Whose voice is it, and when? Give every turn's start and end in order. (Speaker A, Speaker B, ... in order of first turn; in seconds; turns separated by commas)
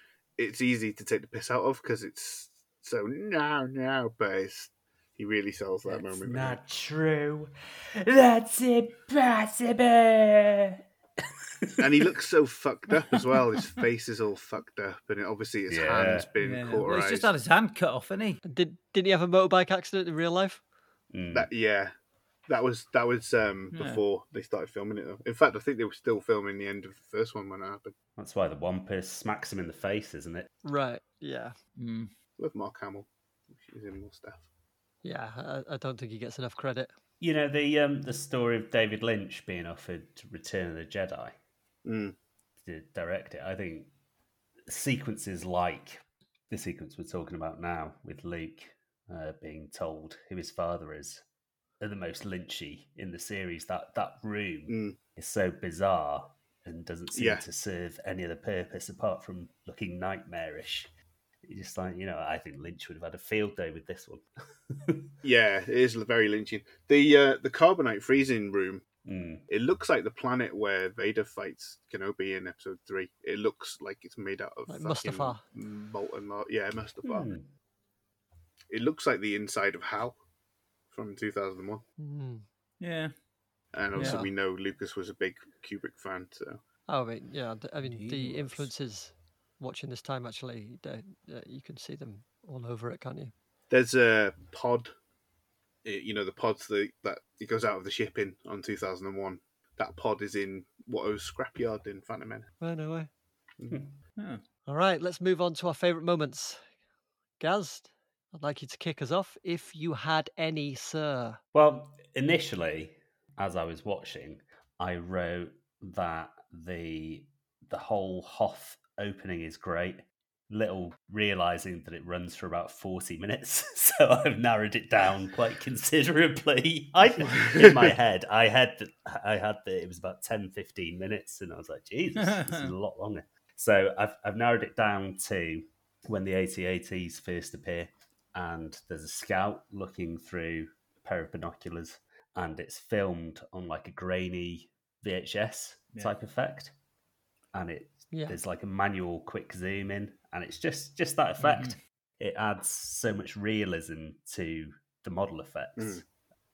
Speaker A: 0.4-6.6, Speaker B: 5.8-10.8, Speaker B: 11.7-12.1, Speaker A: 11.8-17.3, Speaker B: 15.7-16.3, Speaker C: 16.4-18.4, Speaker D: 18.4-20.6, Speaker B: 21.1-21.5, Speaker A: 21.3-21.9, Speaker A: 22.5-27.9, Speaker C: 23.7-24.0, Speaker B: 28.2-30.5, Speaker D: 30.6-31.6, Speaker C: 31.8-32.1, Speaker A: 32.4-33.1, Speaker A: 33.6-34.5, Speaker D: 35.0-36.9, Speaker B: 37.2-41.3, Speaker A: 41.8-42.1, Speaker B: 42.6-43.9, Speaker B: 44.7-51.2, Speaker B: 51.8-60.9, Speaker A: 54.7-55.0, Speaker A: 57.1-57.4, Speaker B: 61.4-65.1, Speaker A: 65.2-68.8, Speaker B: 69.0-69.4, Speaker A: 69.5-77.3, Speaker D: 74.7-75.4, Speaker B: 77.0-77.5, Speaker A: 78.7-80.2, Speaker A: 80.9-81.8, Speaker D: 82.0-82.4, Speaker C: 82.8-83.2, Speaker A: 83.7-86.6, Speaker C: 83.9-84.2, Speaker D: 84.0-84.3, Speaker D: 86.9-93.3, Speaker C: 87.8-88.7, Speaker A: 93.7-94.9, Speaker A: 95.8-102.5, Speaker D: 102.6-103.1, Speaker C: 104.2-104.4, Speaker D: 104.7-106.7, Speaker D: 107.4-111.4, Speaker B: 111.5-146.7, Speaker C: 132.2-132.7, Speaker B: 147.5-156.0, Speaker D: 148.1-148.4, Speaker C: 151.4-151.7, Speaker A: 155.8-156.0